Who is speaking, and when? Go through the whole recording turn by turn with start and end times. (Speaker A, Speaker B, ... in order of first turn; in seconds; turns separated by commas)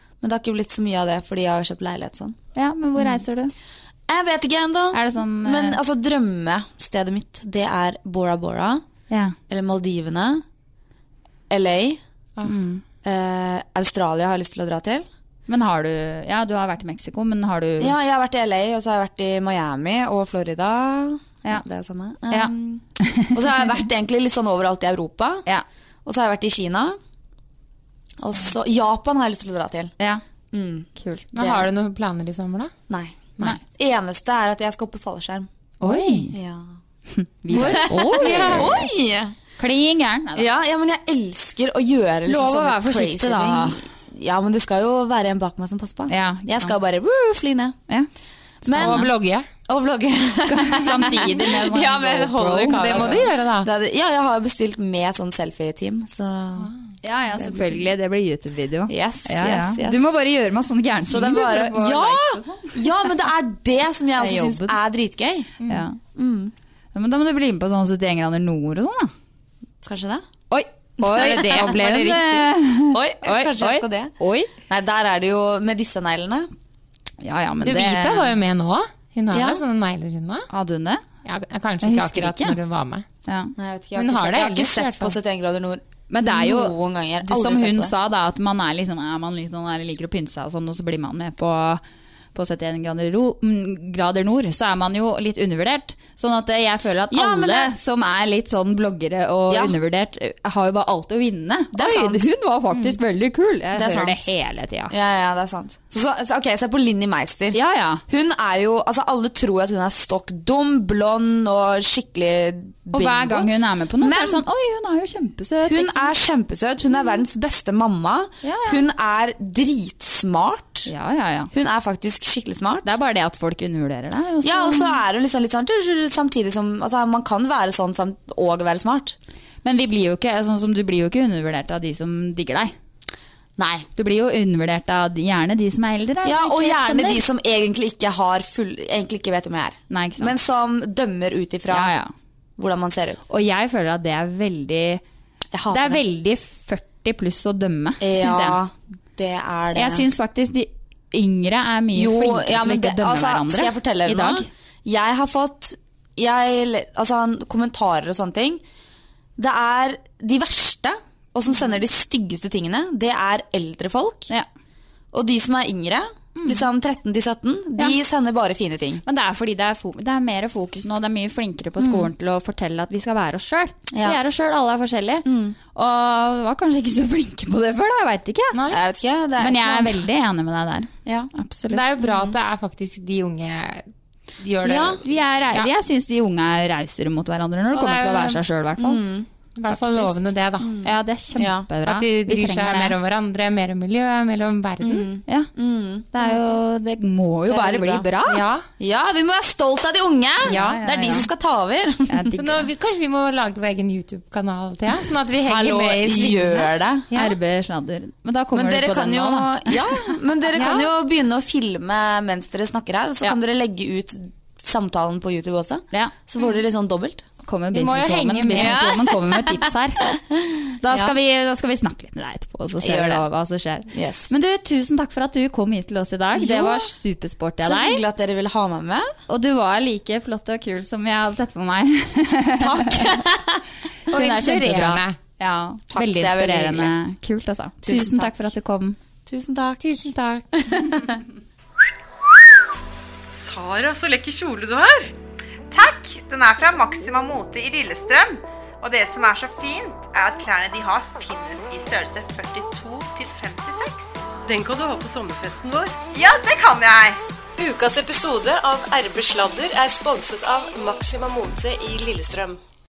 Speaker A: 0.2-2.4, Speaker B: 2.5-3.5, Speaker A: 4.1-8.8, Speaker B: 4.9-5.8, Speaker B: 9.1-9.3, Speaker A: 9.5-10.4, Speaker A: 11.5-12.0, Speaker B: 12.4-12.8, Speaker A: 13.0-15.1, Speaker B: 15.5-17.9, Speaker A: 17.8-25.4, Speaker B: 22.3-23.3, Speaker A: 26.1-27.0, Speaker A: 28.2-29.9, Speaker A: 30.5-31.6, Speaker B: 31.0-31.6, Speaker C: 31.3-32.7, Speaker A: 32.9-35.5, Speaker B: 35.8-36.3, Speaker C: 35.8-36.3, Speaker A: 36.3-36.7, Speaker B: 37.1-38.7, Speaker A: 37.5-39.3, Speaker C: 37.5-38.9, Speaker B: 39.6-40.5, Speaker A: 40.4-47.8, Speaker B: 42.3-43.8, Speaker B: 46.1-46.7, Speaker B: 48.6-49.1, Speaker A: 48.6-49.0, Speaker C: 48.7-49.5, Speaker A: 49.7-56.7, Speaker B: 50.5-53.2, Speaker C: 52.7-53.7, Speaker B: 57.0-63.1, Speaker A: 57.4-57.9, Speaker A: 58.9-60.0, Speaker A: 61.0-65.5, Speaker B: 64.2-64.7, Speaker C: 65.6-65.8, Speaker B: 65.7-66.0, Speaker A: 66.1-66.5, Speaker B: 66.9-69.1, Speaker A: 69.8-70.2, Speaker B: 70.5-74.5, Speaker A: 71.1-71.8, Speaker C: 71.1-72.4, Speaker A: 72.9-74.1, Speaker A: 74.7-76.5, Speaker B: 77.2-78.3, Speaker C: 77.6-80.5, Speaker A: 79.3-79.6, Speaker B: 80.5-81.0, Speaker C: 81.2-83.0, Speaker B: 81.8-82.6, Speaker B: 83.2-83.5, Speaker A: 83.6-87.9, Speaker C: 83.9-85.2, Speaker B: 86.1-86.7, Speaker B: 87.2-91.8, Speaker B: 92.3-104.9, Speaker A: 97.1-97.7, Speaker A: 101.7-102.3, Speaker A: 103.7-104.2, Speaker A: 104.9-114.4, Speaker B: 107.5-108.0, Speaker B: 112.9-116.1, Speaker A: 115.7-120.9, Speaker B: 118.4-118.8, Speaker B: 120.8-121.5, Speaker A: 121.5-122.9, Speaker B: 122.8-125.0, Speaker A: 124.4-129.2, Speaker B: 129.6-132.7, Speaker A: 133.6-133.8, Speaker B: 133.9-137.2, Speaker A: 136.2-141.9, Speaker B: 139.9-140.3, Speaker B: 141.7-142.1, Speaker A: 142.6-143.3, Speaker B: 143.3-145.0, Speaker A: 145.5-146.0, Speaker B: 145.7-148.6, Speaker A: 148.0-150.1, Speaker B: 149.7-154.5, Speaker A: 151.9-158.6, Speaker A: 159.4-164.3, Speaker A: 165.1-169.0, Speaker B: 166.3-166.6, Speaker B: 169.1-178.6, Speaker A: 171.8-172.1, Speaker A: 173.9-174.2, Speaker A: 175.2-175.6, Speaker C: 178.5-178.8, Speaker A: 178.7-180.1, Speaker B: 179.4-181.8, Speaker A: 181.1-181.3, Speaker C: 181.7-185.7, Speaker A: 182.0-182.3, Speaker A: 184.6-185.0, Speaker B: 185.0-189.0, Speaker C: 187.7-188.4, Speaker A: 188.8-189.3, Speaker C: 189.6-190.7, Speaker B: 189.7-190.2, Speaker A: 190.6-191.7, Speaker B: 190.8-193.0, Speaker C: 191.8-195.1, Speaker A: 194.8-196.4, Speaker B: 196.1-198.4, Speaker A: 197.5-198.1, Speaker C: 198.3-198.7, Speaker A: 198.8-202.4, Speaker C: 200.4-201.2, Speaker B: 200.5-201.3, Speaker B: 202.1-202.7, Speaker C: 202.3-207.4, Speaker A: 205.4-207.1, Speaker B: 207.2-209.8, Speaker A: 208.5-217.2, Speaker C: 210.5-210.9, Speaker B: 217.4-220.0, Speaker C: 217.7-218.9, Speaker A: 218.5-220.2, Speaker B: 220.8-228.0, Speaker A: 222.8-223.2, Speaker A: 223.9-224.3, Speaker A: 226.3-226.9, Speaker A: 227.6-229.1, Speaker B: 229.3-233.2, Speaker A: 232.6-234.6, Speaker B: 234.1-238.9, Speaker C: 234.1-235.2, Speaker A: 235.9-236.9, Speaker A: 237.8-238.5, Speaker A: 239.2-241.2, Speaker C: 239.8-240.5, Speaker D: 243.3-245.1, Speaker E: 245.7-254.2, Speaker D: 254.4-255.9, Speaker E: 256.1-257.2, Speaker F: 257.6-262.6